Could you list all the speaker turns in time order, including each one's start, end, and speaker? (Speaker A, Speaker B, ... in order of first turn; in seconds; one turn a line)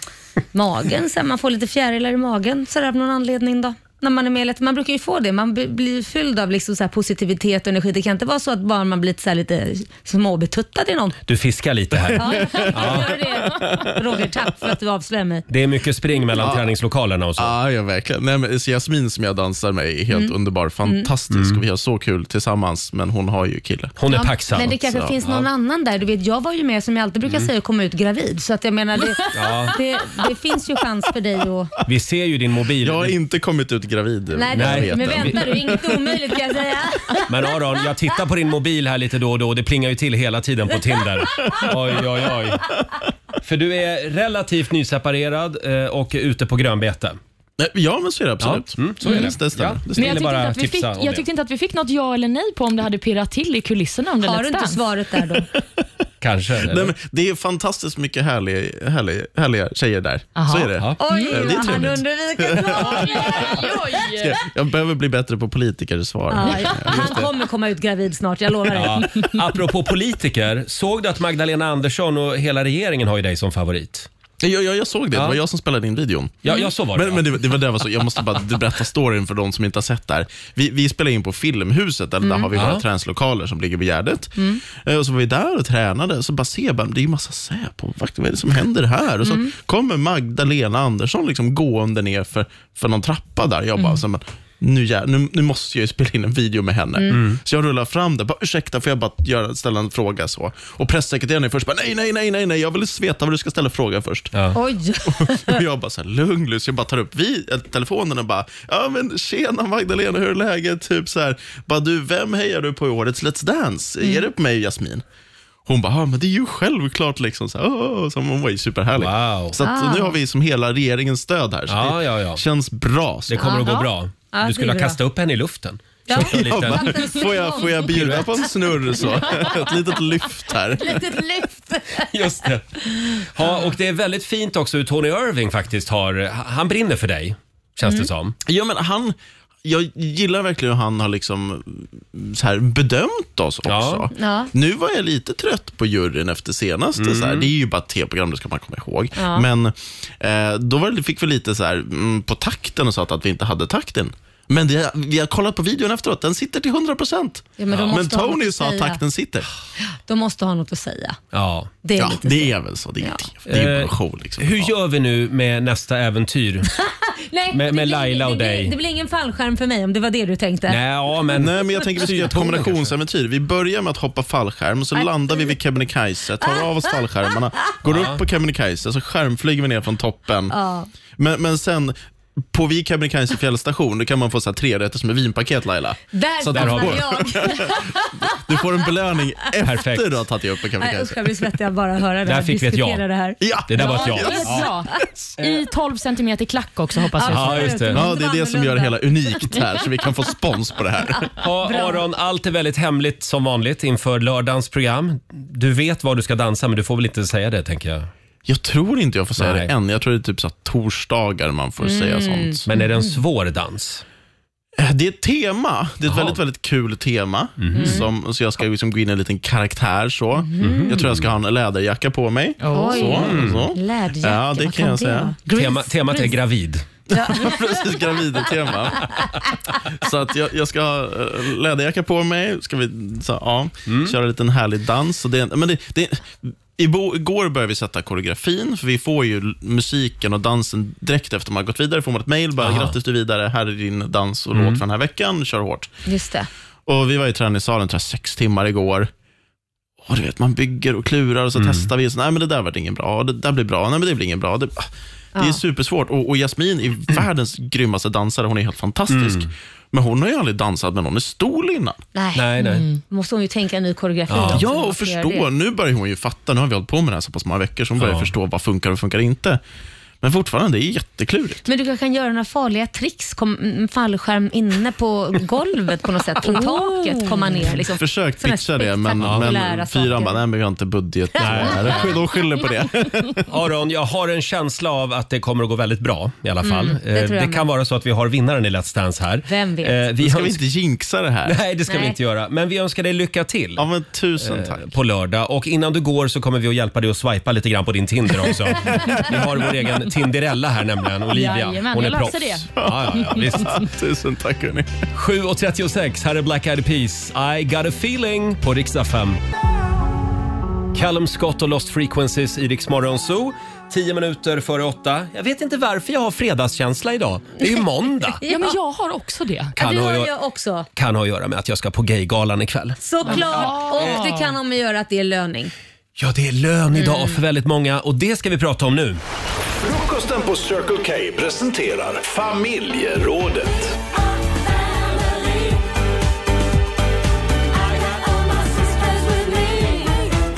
Speaker A: 0.5-11.2
Speaker B: 11.3-13.3
Speaker A: 12.1-15.5
Speaker C: 12.5-14.0
Speaker B: 15.5-17.5
Speaker C: 16.4-16.7
Speaker C: 17.4-24.0
Speaker B: 21.3-21.6
Speaker B: 24.0-25.5
Speaker A: 24.1-31.7
Speaker C: 24.8-25.1
Speaker B: 29.3-29.8
Speaker B: 31.9-33.1
Speaker C: 32.8-35.8
Speaker A: 34.4-37.6
Speaker B: 34.5-35.7
Speaker B: 37.3-42.7
Speaker C: 41.5-42.1
Speaker B: 43.4-47.2
Speaker C: 47.6-50.1
Speaker B: 48.4-51.2
Speaker D: 50.0-54.8
Speaker A: 54.2-55.5
Speaker B: 56.2-56.9
Speaker C: 56.5-67.3
Speaker D: 60.4-61.4
Speaker B: 60.8-61.9
Speaker A: 61.0-63.6
Speaker D: 62.8-64.4
Speaker A: 66.3-69.3
Speaker D: 66.5-66.7
Speaker B: 68.7-74.1
Speaker C: 74.4-104.3
Speaker B: 76.4-77.6
Speaker A: 82.2-82.5
Speaker B: 82.5-82.8
Speaker A: 84.4-84.6
Speaker A: 89.2-89.5
Speaker B: 97.1-97.4
Speaker A: 104.5-105.6
Speaker C: 105.2-115.0
Speaker C: 115.7-123.5
Speaker B: 119.0-119.6
Speaker A: 119.6-120.2
Speaker B: 121.7-122.4
Speaker B: 123.3-127.2
Speaker A: 123.4-125.0
Speaker A: 126.1-128.4
Speaker C: 126.1-131.0
Speaker B: 127.9-128.5
Speaker A: 129.2-129.5
Speaker A: 130.8-132.1
Speaker B: 132.1-138.4
Speaker C: 138.5-159.5
Speaker B: 143.7-144.1
Speaker A: 144.1-144.5
Speaker B: 147.0-147.5
Speaker A: 149.2-149.5
Speaker A: 157.6-159.0
Speaker B: 157.7-158.0
Speaker A: 160.1-161.2
Speaker B: 161.3-161.7
Speaker A: 161.8-163.2
Speaker C: 162.0-164.7
Speaker B: 163.5-166.7
Speaker A: 166.7-170.8
Speaker B: 167.5-168.8
Speaker B: 170.7-172.9
Speaker C: 171.3-180.6
Speaker A: 175.0-175.5
Speaker B: 177.8-178.2
Speaker A: 180.5-180.9
Speaker C: 181.2-181.9
Speaker C: 182.5-191.4
Speaker A: 186.1-188.1
Speaker B: 186.5-187.1
Speaker B: 189.6-190.1
Speaker A: 190.8-195.0
Speaker B: 192.2-193.0
Speaker C: 193.4-194.5
Speaker B: 193.7-194.7
Speaker D: 193.8-197.8
Speaker B: 195.4-195.6
Speaker A: 197.2-199.7
Speaker B: 197.3-198.0
Speaker C: 197.9-201.3
Speaker B: 201.4-208.1
Speaker A: 201.7-202.0
Speaker C: 208.5-212.7
Speaker B: 209.4-209.7
Speaker A: 211.8-212.6
Speaker B: 212.7-214.0
Speaker C: 214.8-225.4
Speaker B: 216.1-216.4
Speaker B: 217.6-218.0
Speaker A: 217.7-218.1
Speaker A: 220.4-221.0
Speaker B: 220.6-221.3
Speaker D: 222.6-223.2
Speaker A: 222.7-226.4
Speaker B: 223.2-223.6
Speaker B: 225.5-226.9
Speaker C: 227.1-229.1
Speaker A: 227.1-228.0
Speaker C: 230.0-245.9
Speaker B: 233.9-234.2
Speaker B: 242.6-242.9
Speaker B: 244.5-244.8
Speaker A: 246.1-246.5
Speaker C: 246.9-249.1
Speaker C: 250.1-254.9
Speaker B: 251.6-251.9
Speaker C: 255.4-262.0
Speaker B: 259.1-259.5
Speaker A: 262.1-265.5
Speaker B: 262.3-262.9
Speaker D: 262.6-263.0
Speaker B: 264.3-264.6
Speaker C: 264.4-269.6
Speaker B: 268.0-268.3
Speaker C: 270.2-271.6
Speaker A: 271.7-280.4
Speaker C: 277.8-283.5
Speaker B: 279.2-279.6
Speaker A: 281.4-282.2
Speaker B: 281.4-282.1
Speaker B: 283.5-290.6
Speaker A: 286.6-287.6
Speaker A: 289.5-290.1
Speaker C: 290.2-291.6
Speaker B: 291.5-293.9
Speaker A: 291.9-292.2
Speaker C: 293.8-294.9
Speaker B: 294.4-303.9
Speaker C: 299.0-299.3
Speaker D: 301.3-303.5
Speaker C: 302.8-305.1
Speaker B: 305.1-309.4
Speaker B: 310.9-318.4
Speaker A: 318.4-318.8
Speaker D: 318.5-319.8
Speaker B: 319.8-320.3
Speaker A: 319.8-320.9
Speaker B: 320.9-324.3
Speaker A: 323.0-325.7
Speaker D: 323.2-324.5
Speaker B: 326.2-329.2
Speaker A: 326.9-327.4
Speaker E: 329.7-334.0